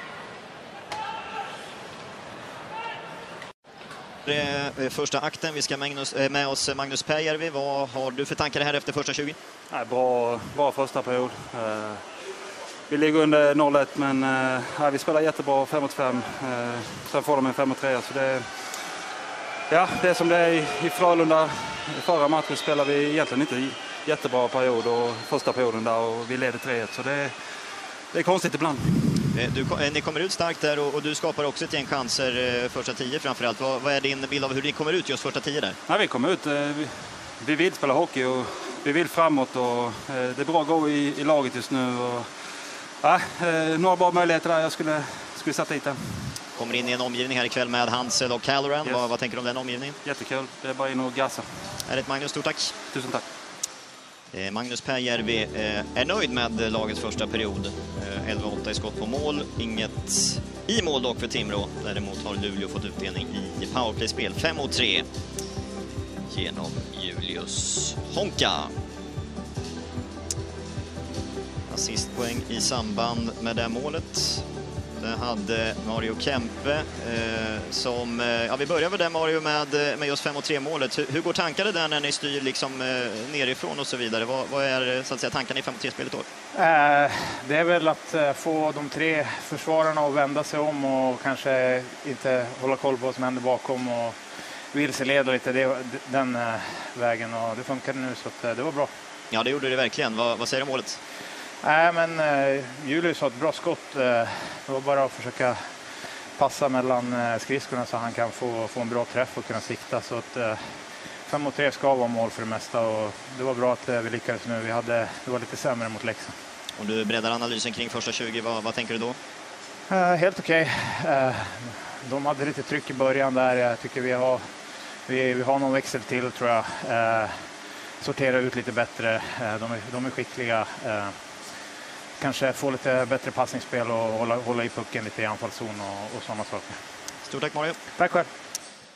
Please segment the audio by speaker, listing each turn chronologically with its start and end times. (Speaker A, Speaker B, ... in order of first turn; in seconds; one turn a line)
Speaker A: 4.2-9.4
Speaker B: 9.7-12.1
Speaker B: 12.9-18.6
Speaker B: 19.7-27.4
Speaker B: 28.1-29.3
Speaker A: 29.3-35.8
Speaker B: 35.9-46.4
Speaker A: 46.5-50.0
Speaker B: 48.8-49.1
Speaker B: 50.0-51.5
Speaker A: 51.8-52.8
Speaker B: 52.9-53.2
Speaker A: 54.3-65.0
Speaker A: 66.2-68.7
Speaker A: 71.7-74.5
Speaker A: 75.0-86.3
Speaker C: 86.5-94.2
Speaker C: 94.7-98.9
Speaker A: 99.3-101.0
Speaker C: 101.6-105.6
Speaker C: 106.4-110.6
Speaker C: 111.3-116.3
Speaker A: 116.8-119.2
Speaker C: 119.9-124.4
Speaker C: 125.1-127.3
Speaker C: 128.0-131.1
Speaker C: 132.2-136.8
Speaker A: 137.2-137.8
Speaker C: 138.0-138.3